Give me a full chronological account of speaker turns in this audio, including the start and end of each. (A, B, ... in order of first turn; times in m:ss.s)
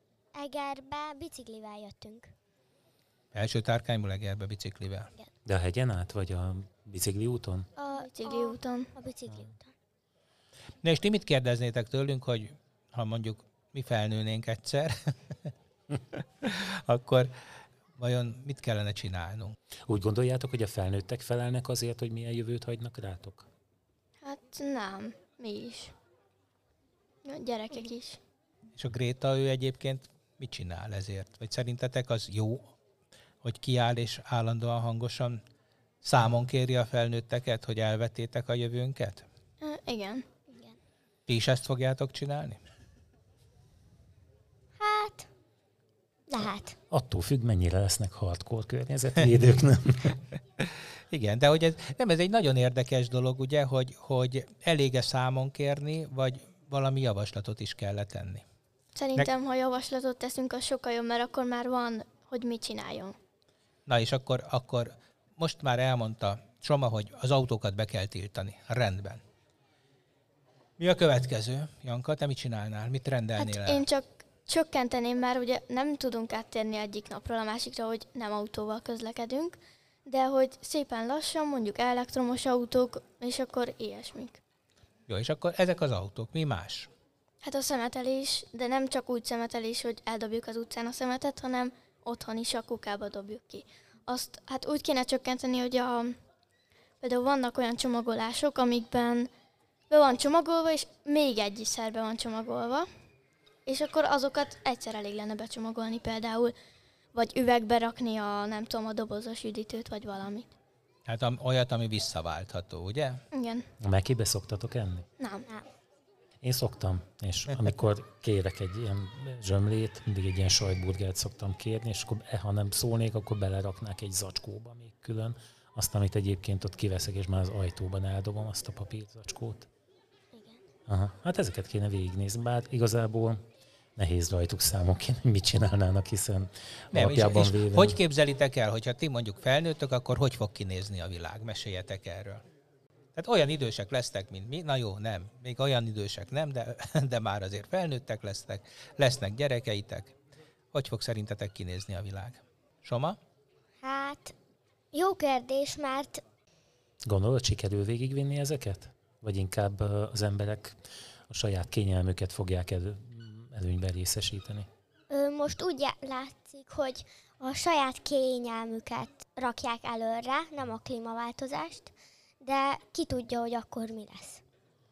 0:00.4-0:02.3 A
0:03.3-0:05.1 B
0:05.4-0:07.7 C
0:07.8-0:09.7 A
0:07.9-0:08.9 D
0:10.8-0:15.5 B
0:16.4-0:17.3 B
0:18.0-0:19.6 B
0:19.9-0:23.5 C
0:24.2-0:25.9 D
0:27.2-0:28.2 D
0:28.8-0:32.6 B
0:33.4-0:35.4 B
0:36.0-0:39.2 B
0:39.6-0:40.2 D
0:41.3-0:42.6 B
0:44.8-0:45.3 A
0:46.3-0:46.8 A
0:46.9-0:50.2 C
0:51.1-0:58.4 B
0:59.0-1:03.2 D
1:03.9-1:09.2 B
1:10.8-1:13.8 B
1:13.4-1:24.4 D
1:25.1-1:26.9 B
1:27.4-1:36.2 D
1:37.0-1:39.3 D
1:39.9-1:42.9 D
1:43.7-1:46.6 D
1:47.1-1:50.5 D
1:51.1-1:53.2 B
1:53.3-1:53.7 D
1:53.8-1:55.1 C
1:55.2-1:55.5 D
1:56.4-2:09.7 C
2:10.3-2:10.6 A
2:10.9-2:13.4 C
2:14.0-2:18.0 C
2:16.9-2:22.4 B
2:23.2-2:30.2 B
2:30.7-2:33.2 B
2:33.8-2:34.3 A
2:34.9-2:36.2 A
2:37.0-2:40.8 C
2:41.3-2:44.7 C
2:45.1-2:54.4 A